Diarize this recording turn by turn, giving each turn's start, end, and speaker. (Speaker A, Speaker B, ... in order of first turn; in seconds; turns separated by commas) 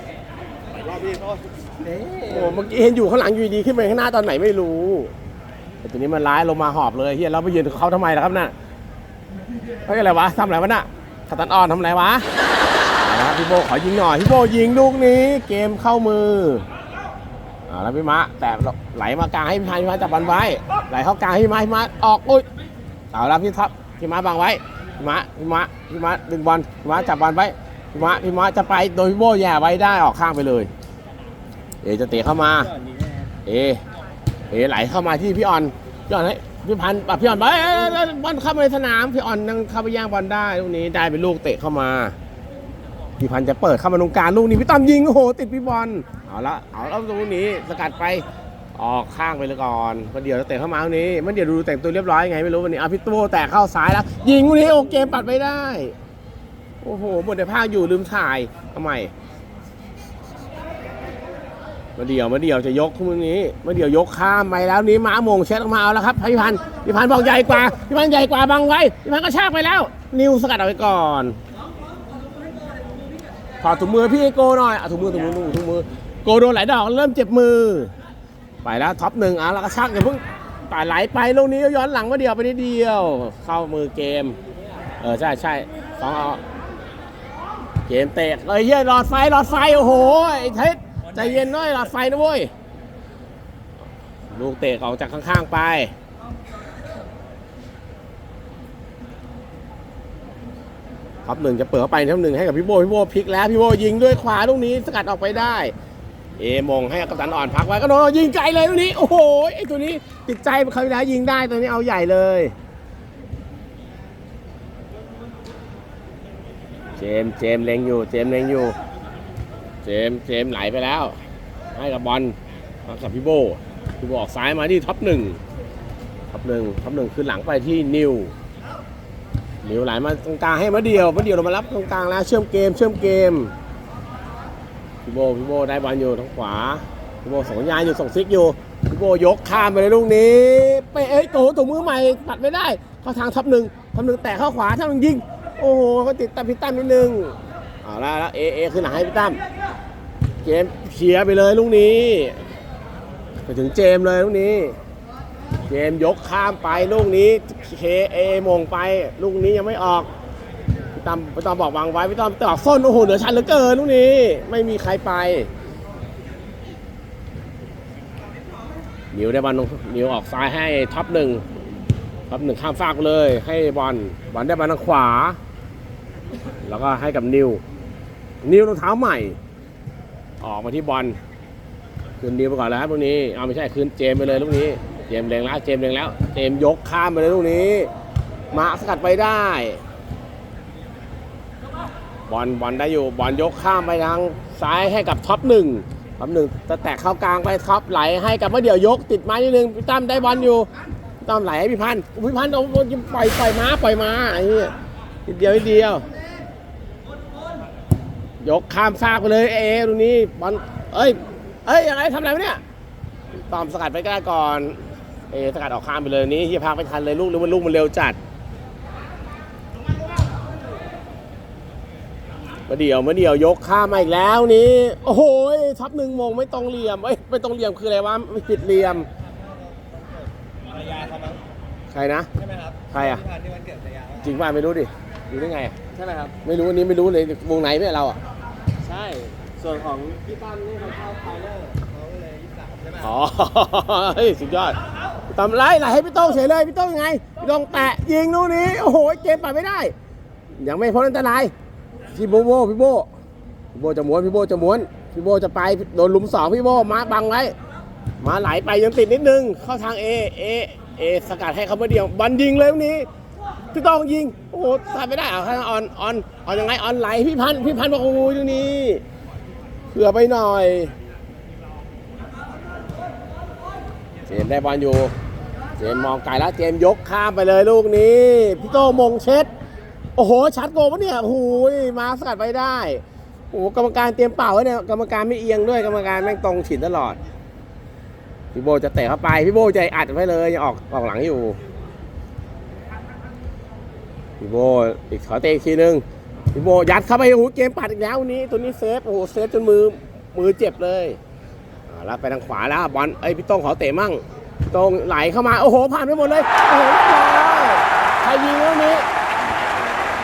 Speaker A: 0.8-2.5, Speaker B: 2.2-5.1, Speaker B: 5.8-8.5, Speaker B: 9.8-12.2, Speaker B: 13.0-16.6, Speaker B: 17.7-22.4, Speaker B: 23.1-30.7, Speaker B: 31.8-32.7, Speaker A: 32.6-33.3, Speaker B: 33.5-33.8, Speaker B: 34.5-42.2, Speaker B: 43.2-48.2, Speaker B: 48.8-55.9, Speaker B: 56.8-59.1, Speaker B: 62.0-71.3, Speaker B: 73.6-77.9, Speaker B: 78.6-84.3, Speaker B: 85.0-86.4, Speaker B: 87.9-92.5, Speaker B: 94.3-95.9, Speaker B: 101.2-105.7, Speaker B: 106.4-112.5, Speaker B: 117.0-118.8, Speaker B: 119.8-121.2, Speaker B: 121.7-125.4, Speaker B: 126.3-128.3, Speaker B: 129.6-133.5, Speaker B: 135.0-149.4, Speaker B: 150.4-152.4, Speaker B: 153.5-154.7, Speaker B: 155.7-160.1, Speaker B: 160.9-165.5, Speaker B: 169.1-171.4, Speaker B: 172.3-175.4, Speaker B: 176.6-177.6, Speaker B: 178.4-179.4, Speaker B: 180.4-181.2, Speaker B: 182.2-187.9, Speaker B: 188.5-189.8, Speaker B: 192.3-200.7, Speaker B: 201.2-204.7, Speaker B: 205.2-206.0, Speaker B: 208.4-212.6, Speaker B: 213.5-214.8, Speaker B: 215.3-218.2, Speaker B: 222.7-229.1, Speaker A: 230.7-231.4, Speaker B: 231.9-232.3, Speaker A: 232.4-234.2, Speaker B: 232.9-233.2, Speaker B: 234.2-235.7, Speaker A: 235.9-236.3, Speaker B: 236.4-238.2, Speaker A: 238.8-243.0, Speaker B: 243.0-244.8, Speaker B: 245.3-249.9, Speaker B: 250.5-251.5, Speaker B: 252.1-253.1, Speaker B: 253.7-257.5, Speaker B: 258.2-263.1, Speaker B: 263.7-269.0, Speaker B: 269.9-270.9, Speaker B: 274.3-275.1, Speaker B: 275.8-279.5, Speaker B: 280.1-287.2, Speaker B: 288.5-291.6, Speaker B: 294.4-301.2, Speaker B: 301.9-309.0